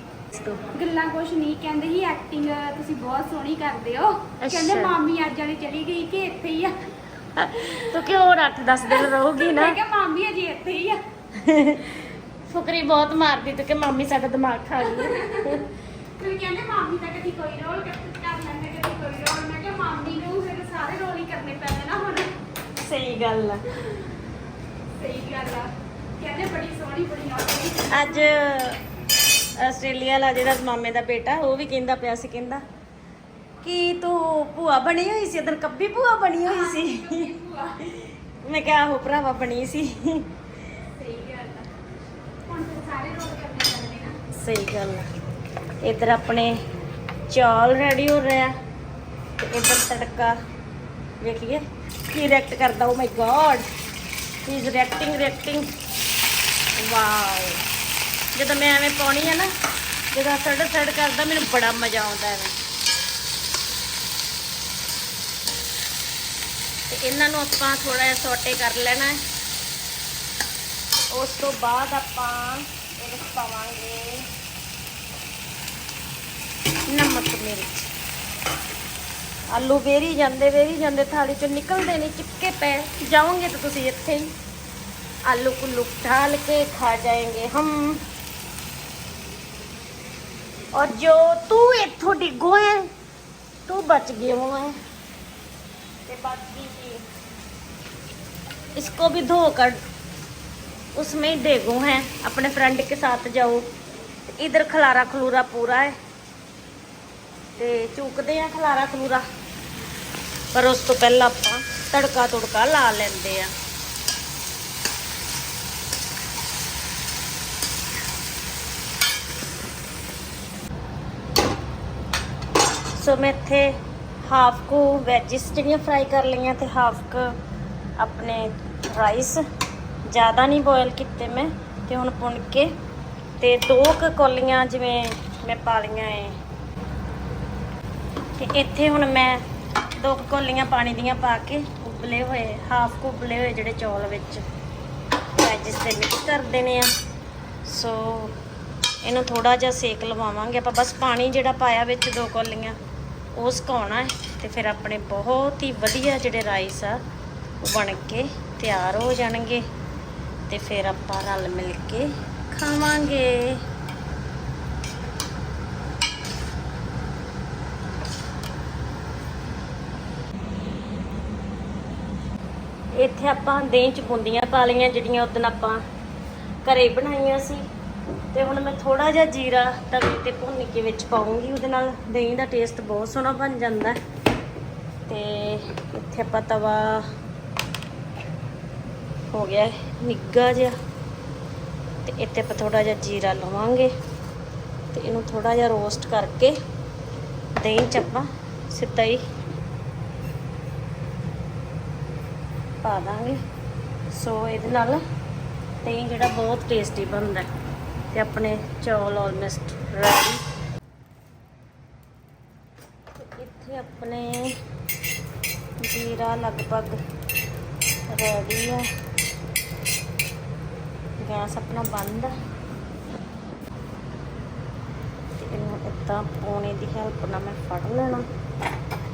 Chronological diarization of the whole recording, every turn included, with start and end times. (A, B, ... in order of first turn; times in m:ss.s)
0:00.3-0:00.6 A
0:00.7-0:06.8 B
0:04.4-0:04.9 A
0:07.4-0:09.8 A
0:07.7-0:08.1 B
0:08.9-0:11.0 B
0:11.4-0:11.9 A
0:12.5-0:15.6 A
0:14.9-0:15.6 B
0:16.2-0:22.3 B
0:22.8-0:23.6 A
0:25.0-0:28.3 B
0:27.9-0:28.8 A
0:29.6-0:32.6 A
0:33.6-0:37.3 A
0:36.4-0:37.8 B
0:37.9-0:40.3 A
0:41.0-0:41.7 B
0:42.5-0:44.2 B
0:44.3-0:45.1 A
0:45.8-0:46.6 A
0:47.3-0:48.5 A
0:49.4-0:50.4 A
0:51.2-0:53.7 A
0:54.4-0:55.7 A
0:56.8-0:57.6 A
0:58.4-0:59.5 A
1:00.1-1:02.5 A
1:06.9-1:09.2 A
1:11.1-1:14.3 A
1:16.9-1:17.9 A
1:19.5-1:24.3 A
1:25.3-1:28.0 A
1:30.7-1:32.9 A
1:33.7-1:34.8 A
1:36.1-1:37.0 A
1:38.8-1:39.8 A
1:41.0-1:43.7 A
1:44.3-1:46.0 A
1:47.6-1:49.2 A
1:50.5-1:53.5 A
2:03.0-2:07.4 A
2:08.0-2:09.4 A
2:10.1-2:12.7 A
2:13.4-2:16.4 A
2:18.4-2:19.4 A
2:20.0-2:24.4 A
2:25.4-2:26.9 A
2:27.6-2:28.4 A
2:29.0-2:32.8 A
2:33.4-2:37.0 A
2:37.6-2:39.6 A
2:40.5-2:43.6 A
2:53.0-2:55.8 A
2:56.6-2:57.6 A
2:58.3-3:04.0 A
3:05.1-3:07.0 A
3:09.3-3:10.8 A
3:12.1-3:13.9 A
3:14.9-3:16.5 A
3:17.6-3:19.2 A
3:22.8-3:23.4 A
3:24.1-3:25.0 A
3:25.8-3:27.5 A
3:28.1-3:30.4 A
3:33.2-3:34.6 A
3:35.8-3:37.0 A
3:38.1-3:38.9 A
3:41.2-3:42.3 A
3:45.4-3:48.3 A